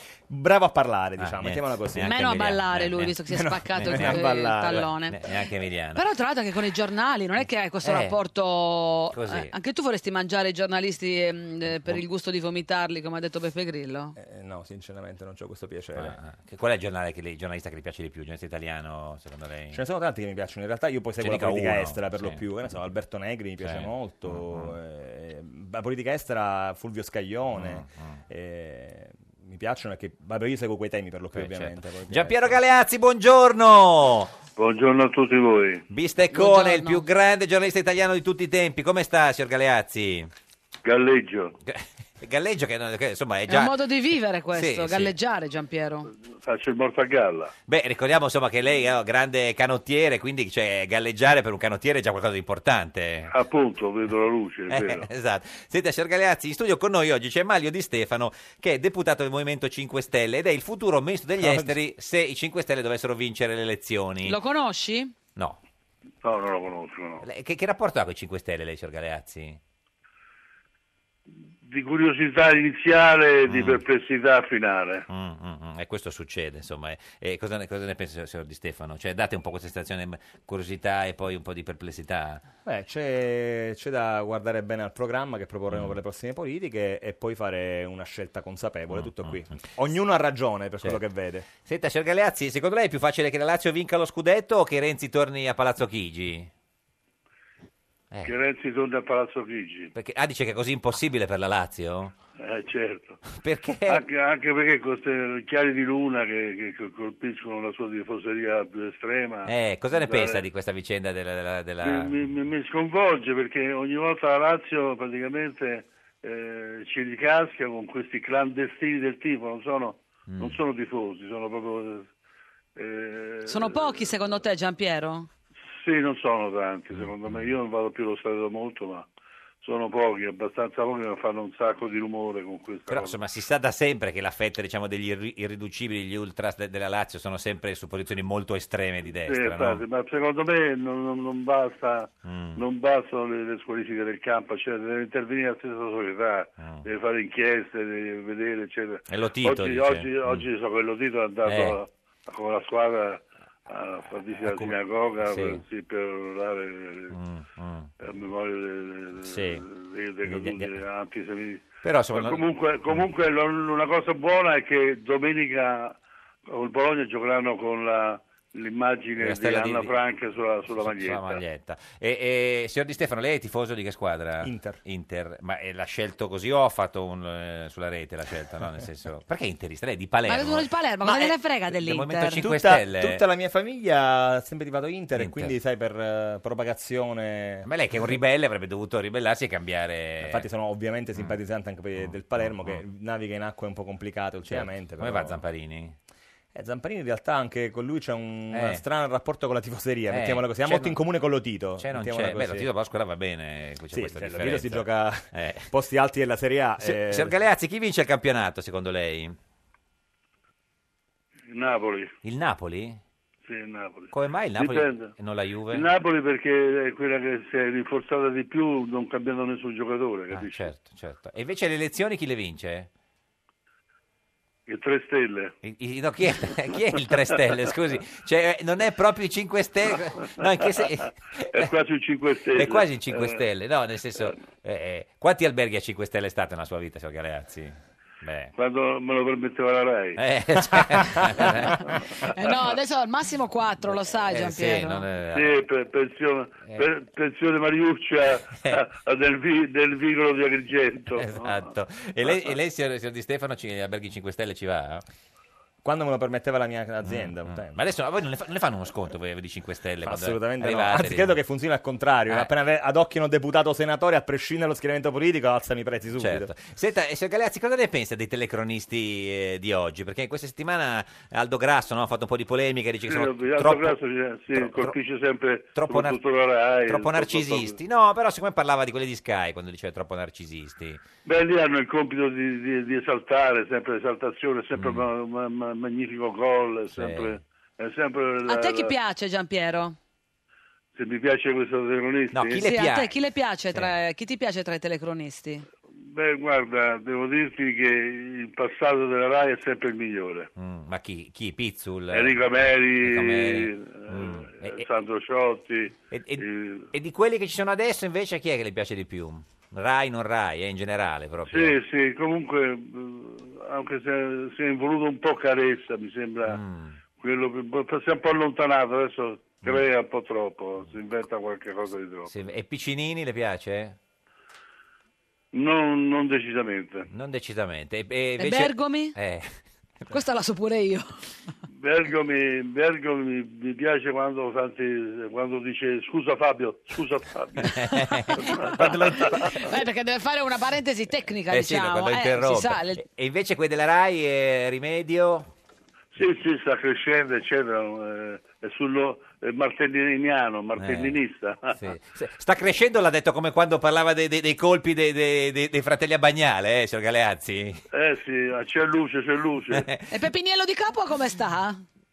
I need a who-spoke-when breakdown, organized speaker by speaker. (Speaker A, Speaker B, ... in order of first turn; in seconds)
Speaker A: 0.3-2.1, 3.3-4.9, 14.2-16.1, 19.7-32.6, 61.4-61.7, 82.7-91.5, 174.4-174.8, 182.4-187.7, 190.2-195.4, 196.5-202.7, 203.9-207.3, 255.8-257.7, 260.0-266.5
Speaker B: 1.2-3.2, 3.7-4.2, 5.1-6.0, 7.8-8.2, 9.1-9.5, 15.9-19.8, 21.2-22.4, 23.6-24.7, 27.5-28.2, 31.3-34.3, 35.9-40.3, 41.6-43.8, 44.5-45.1, 47.7-53.3, 54.7-64.3, 67.2-69.6, 73.5-73.8, 75.1-82.4, 85.7-86.0, 88.9-89.6, 91.6-96.5, 99.9-102.1, 103.3-104.0, 109.5-112.2, 120.3-120.6, 126.9-127.5, 132.9-139.8, 142.2-142.6, 146.6-146.8, 149.1-150.4, 151.4-151.8, 154.4-155.6, 157.1-157.9, 159.2-159.6, 160.2-160.8, 161.8-163.0, 169.2-170.0, 170.7-183.2, 185.2-185.5, 187.6-190.4, 192.0-192.8, 194.5-195.9, 198.5-198.8, 200.1-201.0, 201.8-205.7, 206.8-209.3, 212.2-213.0, 214.1-215.9, 220.3-222.9, 225.6-231.7, 232.5-238.5, 240.2-241.9, 244.2-245.6, 251.1-255.0, 257.0-261.4, 266.2-274.0, 274.5-274.9, 275.7-276.2, 276.9-281.0, 284.7-285.1, 286.9-287.4, 292.3-293.1, 300.6-302.5, 303.0-304.9, 306.1-311.8, 316.4-317.0, 322.3-323.9, 327.1-329.5, 337.6-339.7, 341.5-345.5, 350.8-351.2, 351.8-357.8, 359.7-360.1
Speaker C: 2.0-5.2, 5.9-14.1, 36.3-37.0, 43.5-46.1, 64.2-65.1, 123.5-125.3, 180.3-182.4, 242.3-245.0, 288.5-289.9, 292.6-295.6, 328.4-329.1, 330.1-331.1, 339.4-343.0, 360.1-361.8
Speaker D: 34.5-35.8, 40.8-41.5, 46.3-47.5, 53.3-55.1, 66.2-67.2, 71.6-75.0, 98.2-99.9, 102.4-103.2, 103.9-110.4, 111.8-122.1, 122.8-124.2, 125.8-129.1, 129.6-133.2, 139.1-157.2, 158.0-171.4, 211.5-212.1, 213.4-215.1, 215.7-220.7, 224.7-225.5, 230.9-233.4, 238.6-240.2, 245.3-251.6, 273.1-277.8, 281.2-288.9, 290.9-292.6, 296.0-300.5, 302.1-306.9, 311.5-316.6, 317.2-322.3, 325.5-327.1, 331.7-337.8, 338.4-339.5, 346.1-351.8, 357.9-359.9